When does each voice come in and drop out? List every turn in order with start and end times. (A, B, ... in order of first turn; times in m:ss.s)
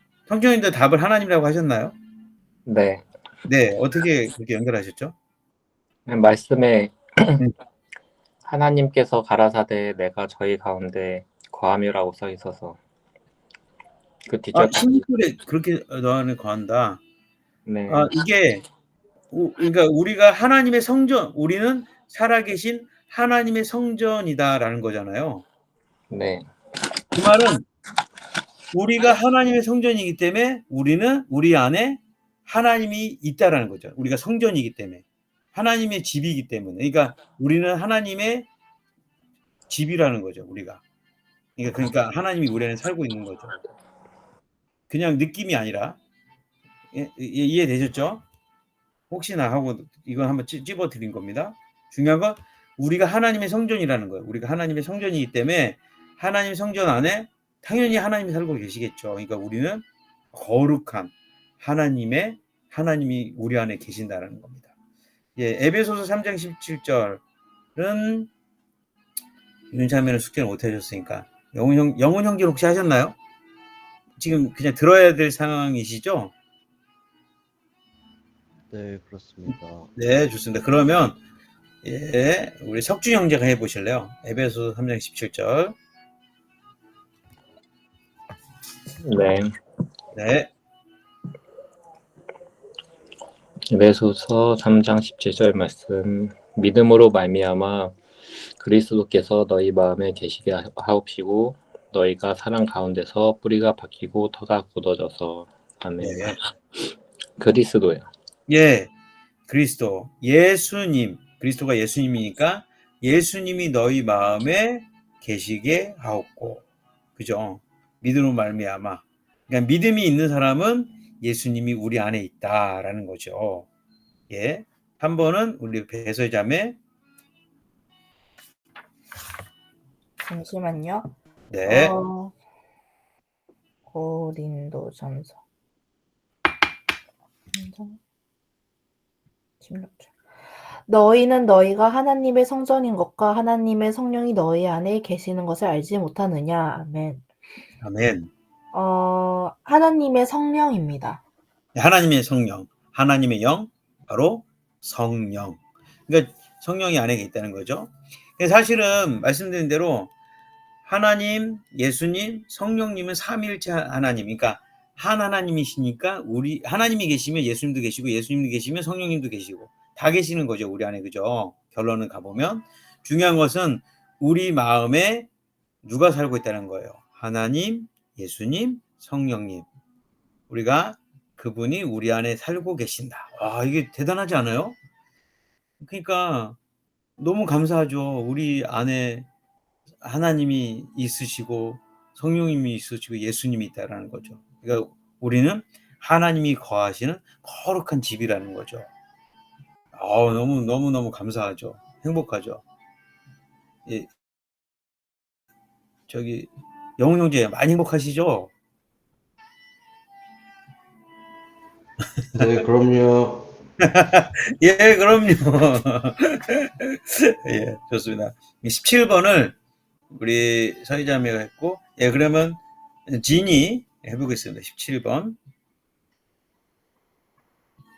0:00.3-0:02.0 A
0:02.7-0:03.0 B
0:03.5-0:05.2 A
0:06.1-0:07.4 B
0:08.4-0:12.8 B
0:14.3-0:15.0 B
0:14.5-0:17.0 A
0:17.7-0:18.1 B
0:17.9-0:18.6 A
0:19.3-0:25.4 A
0:26.1-0:26.5 B
0:27.1-0:27.7 A
0:28.7-0:38.5 A
0:39.7-0:40.8 A
0:41.6-0:43.5 A
0:44.9-0:46.0 A
0:46.9-0:48.2 A
0:49.1-1:04.7 A
1:05.4-1:07.2 A
1:07.8-1:08.3 A
1:09.7-1:13.2 A
1:14.2-1:16.3 A
1:18.7-1:19.9 C
1:19.5-1:21.2 A
1:21.8-1:25.8 A
1:29.0-1:29.5 B
1:30.2-1:30.5 A
1:33.7-1:38.0 B
1:38.6-1:46.8 B
1:46.0-1:46.4 A
1:47.4-1:48.1 B
1:48.5-1:48.9 A
1:49.5-1:56.6 A
1:57.2-2:03.7 A
2:04.3-2:06.8 A
2:10.3-2:11.1 D
2:11.5-2:11.9 A
2:11.7-2:12.3 D
2:13.9-2:15.4 D
2:17.5-2:18.0 D
2:19.6-2:20.1 D
2:20.9-2:27.2 D
2:27.8-2:28.3 A
2:28.7-2:31.2 D
2:31.8-2:40.1 A
2:40.8-2:55.3 A
2:55.8-2:59.7 A
3:00.5-3:04.8 A
3:05.8-3:06.6 A
3:07.2-3:09.3 A
3:10.0-3:18.9 A
3:19.9-3:22.6 A
3:23.9-3:24.1 A
3:26.1-3:28.5 A
3:32.4-3:33.4 C
3:33.8-3:39.5 A
3:40.1-3:45.4 A